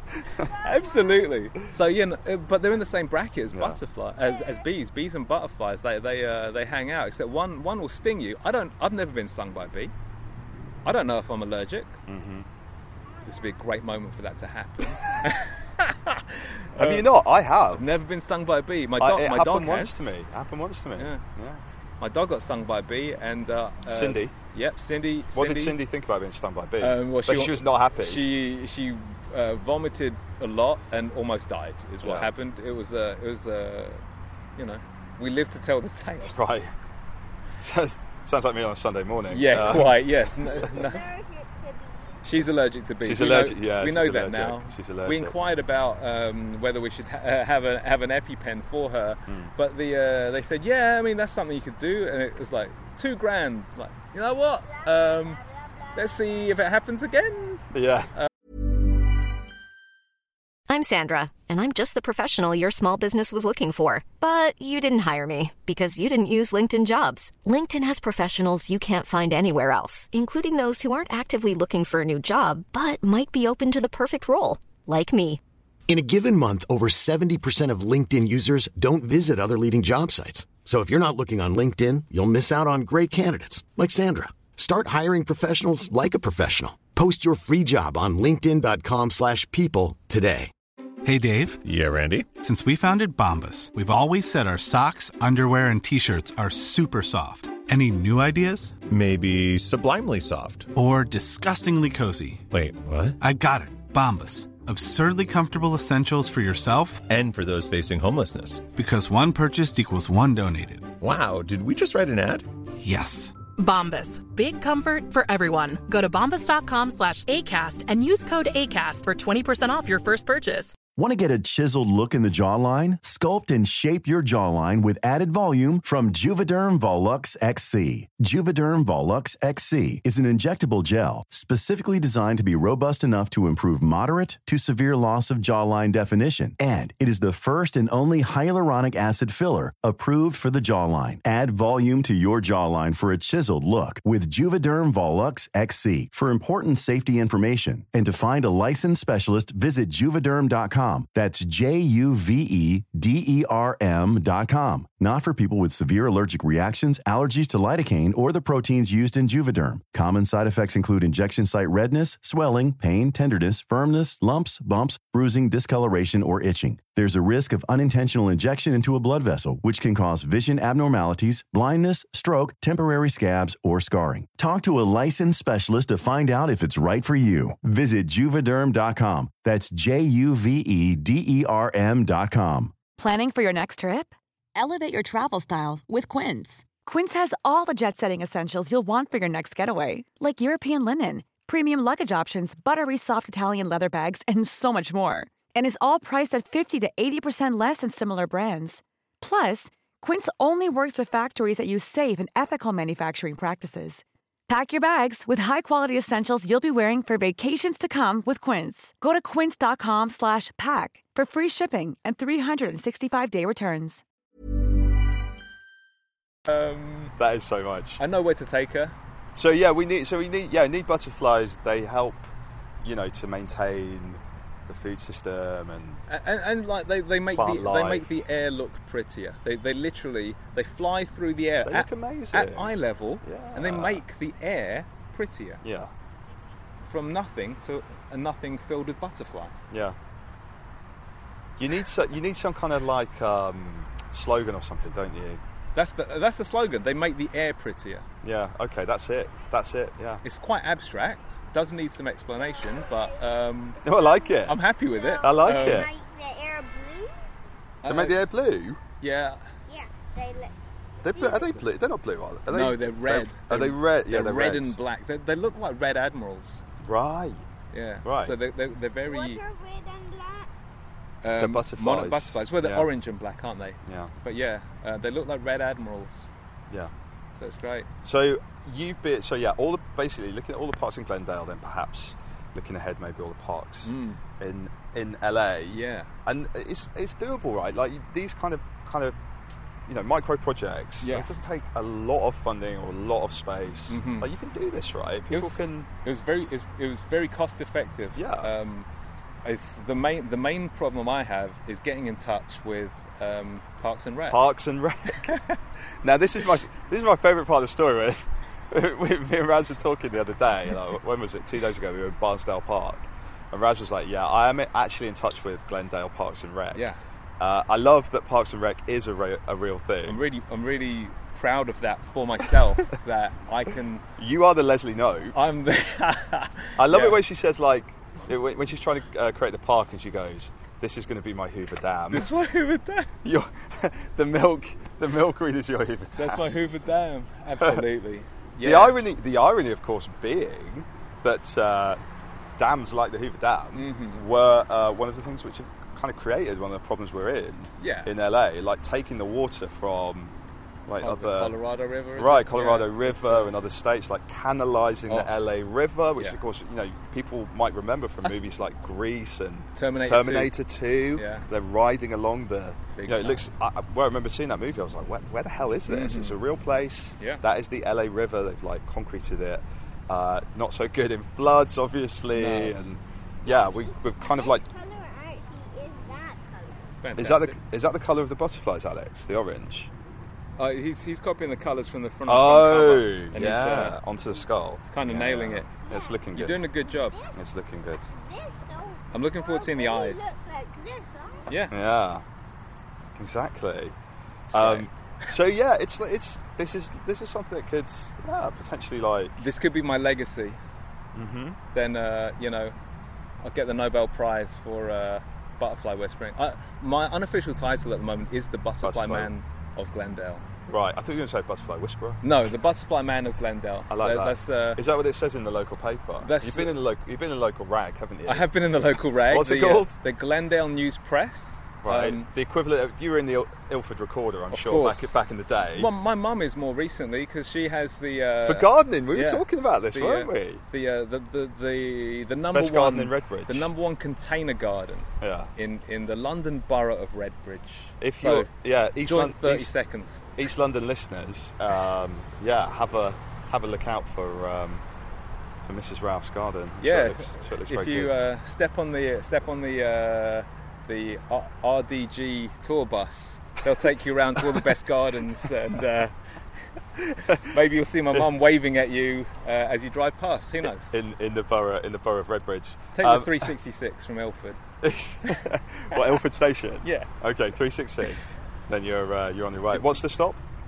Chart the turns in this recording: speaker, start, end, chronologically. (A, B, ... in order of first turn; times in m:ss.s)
0:00.6-0:09.9 A
0:03.5-0:03.8 B
0:10.8-0:12.0 A
0:12.1-0:12.5 B
0:13.3-0:17.1 A
0:16.8-0:17.8 B
0:17.7-0:20.1 A
0:19.0-0:21.6 B
0:21.0-0:21.2 A
0:22.0-0:25.8 A
0:23.9-0:24.4 B
0:25.4-0:28.2 B
0:26.8-0:34.0 A
0:32.0-0:32.3 B
0:34.6-0:36.3 A
0:36.2-0:36.7 B
0:37.6-0:40.0 B
0:39.3-0:41.0 A
0:40.4-0:42.4 C
0:42.2-0:55.4 A
0:43.0-0:45.3 B
0:49.3-0:49.5 B
0:54.7-0:55.3 C
0:55.9-0:58.3 A
0:57.7-0:58.1 B
1:00.7-1:15.4 D
1:15.9-1:30.5 E
1:31.0-1:31.6 F
1:31.6-1:32.3 G
1:32.3-1:38.8 F
1:38.9-1:40.7 G
1:40.7-1:42.4 F
1:42.5-1:43.2 G
1:43.2-1:47.1 F
1:47.1-1:48.7 G
1:48.7-1:51.0 F
1:51.0-1:52.5 G
1:52.8-1:53.4 F
1:53.6-2:00.8 H
2:01.0-3:02.8 I
3:03.0-3:34.0 J
3:36.5-3:37.2 A
3:37.2-3:38.0 B
3:38.0-3:39.0 A
3:39.4-3:42.3 B
3:42.8-3:46.0 B
3:46.1-3:55.6 A
3:47.3-3:48.1 B
3:51.6-3:54.0 B
3:55.6-3:55.9 B
3:56.8-3:59.6 A
3:59.7-4:00.0 B
4:01.6-4:05.4 B
4:05.8-4:08.0 A
4:08.2-4:10.2 B
4:10.2-4:13.8 A
4:12.6-4:13.1 C
4:13.8-4:14.6 B
4:13.8-4:17.1 C
4:14.5-4:15.9 A
4:15.2-4:15.9 B
4:17.8-4:18.2 A
4:17.9-4:18.8 B
4:19.0-4:19.5 A
4:19.7-4:21.6 C
4:21.0-4:24.8 B
4:22.5-4:26.6 A
4:26.8-4:27.4 B
4:27.7-4:29.4 A
4:28.0-4:28.4 B
4:29.1-4:30.5 C
4:31.2-4:36.3 A
4:31.4-4:32.9 B
4:33.9-4:34.1 B
4:37.4-4:37.9 A
4:38.0-4:49.2 B
4:43.8-4:44.2 A
4:45.7-4:46.1 A
4:49.9-4:55.9 B
4:51.0-4:51.3 A
4:53.9-4:54.3 A
4:55.3-4:58.9 A
4:58.2-4:58.5 B
4:59.4-5:04.4 A
5:04.3-5:05.3 B
5:06.0-5:16.8 B
5:16.7-5:17.0 A
5:17.4-5:20.2 B
5:20.1-5:24.0 A
5:24.2-5:25.4 B
5:25.3-5:27.2 A
5:26.8-5:32.3 B
5:32.1-5:33.1 A
5:33.2-5:36.5 B
5:36.2-5:39.0 A
5:38.6-5:42.0 B
5:42.6-5:50.3 B
5:43.7-5:44.2 A
5:47.8-5:48.1 A
5:50.9-5:51.6 B
5:51.0-5:53.6 A
5:52.2-6:14.7 B
5:55.1-5:55.3 A
5:59.8-6:00.6 A
6:01.2-6:01.5 A
6:03.0-6:03.4 A
6:05.9-6:06.4 A
6:12.4-6:12.8 A
6:13.5-6:17.0 C
6:17.0-6:17.6 A
6:17.2-6:19.9 B
6:20.6-6:24.0 A
6:22.3-6:26.7 B
6:24.8-6:25.7 A
6:25.8-6:27.4 C
6:26.4-6:27.2 A
6:27.4-6:28.1 B
6:28.1-6:31.5 C
6:29.1-6:30.3 A
6:31.5-6:31.7 A
6:31.7-6:32.2 B
6:33.2-6:34.0 B
6:34.5-6:39.4 B
6:34.5-6:34.9 A
6:39.4-6:40.6 A
6:41.2-6:41.6 B
6:41.7-6:42.8 A
6:43.4-6:50.5 A
6:48.8-6:49.3 B
6:50.7-6:52.2 B
6:52.2-6:54.8 A
6:53.9-6:58.5 B
6:56.2-6:56.7 A
6:58.3-7:02.3 A
6:59.3-7:00.0 B
7:01.8-7:05.9 B
7:04.5-7:05.2 A
7:05.7-7:18.5 A
7:08.4-7:10.6 B
7:12.5-7:13.7 B
7:15.2-7:15.5 B
7:18.0-7:19.7 B
7:19.0-7:20.3 A
7:20.4-7:24.8 B
7:25.6-7:28.2 B
7:26.8-7:36.1 A
7:37.0-7:41.0 A
7:40.9-7:43.5 B
7:43.0-7:44.6 A
7:44.8-7:50.4 B
7:46.8-7:47.1 A